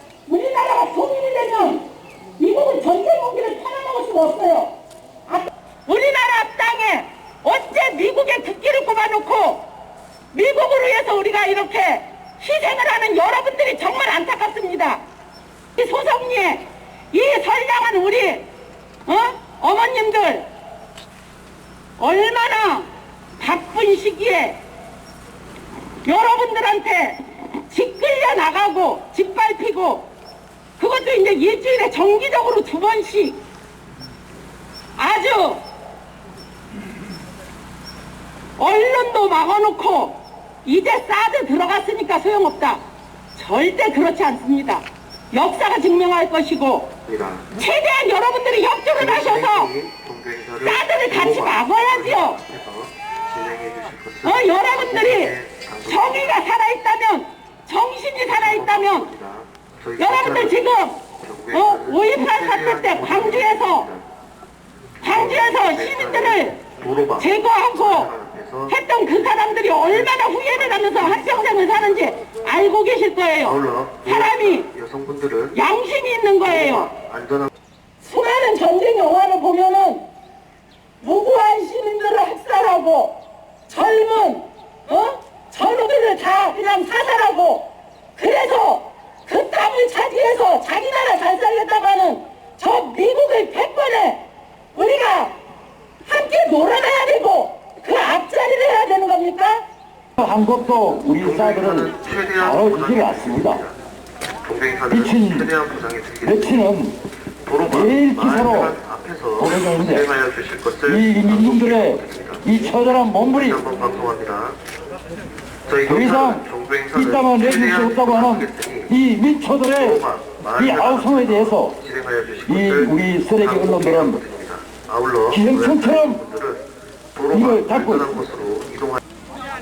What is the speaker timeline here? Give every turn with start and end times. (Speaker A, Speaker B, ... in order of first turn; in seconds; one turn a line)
Speaker A: 0.3-1.8
Speaker A: 2.4-4.7
Speaker A: 5.3-9.6
Speaker A: 10.3-15.0
Speaker A: 15.8-18.5
Speaker A: 19.1-20.5
Speaker A: 22.0-24.6
Speaker A: 26.1-30.1
Speaker A: 30.8-33.4
Speaker A: 35.0-35.6
Speaker A: 38.6-42.8
Speaker A: 43.3-46.9
Speaker B: 47.1-47.5
Speaker A: 47.5-49.7
Speaker B: 49.0-56.3
Speaker A: 50.6-52.4
Speaker A: 54.2-55.3
Speaker A: 55.9-59.0
Speaker B: 58.3-60.6
Speaker A: 60.0-63.9
Speaker B: 61.2-64.0
Speaker A: 65.0-66.6
Speaker B: 65.0-68.8
Speaker A: 67.2-68.1
Speaker A: 68.7-74.7
Speaker B: 69.7-71.2
Speaker B: 73.4-75.6
Speaker A: 75.5-76.9
Speaker B: 76.5-77.5
Speaker A: 78.0-80.1
Speaker A: 81.0-83.2
Speaker A: 83.7-94.2
Speaker A: 94.7-95.3
Speaker A: 96.0-99.6
Speaker C: 100.2-103.6
Speaker B: 101.2-103.8
Speaker B: 104.5-106.6
Speaker C: 104.9-105.5
Speaker C: 106.2-107.0
Speaker B: 107.5-112.4
Speaker C: 107.7-108.8
Speaker C: 109.4-110.1
Speaker C: 110.9-113.6
Speaker B: 113.2-114.6
Speaker B: 115.7-118.9
Speaker C: 115.9-120.0
Speaker B: 119.8-126.6
Speaker C: 120.6-121.8
Speaker C: 122.5-124.2
Speaker C: 125.3-126.2
Speaker B: 127.2-129.0
Speaker C: 127.3-128.2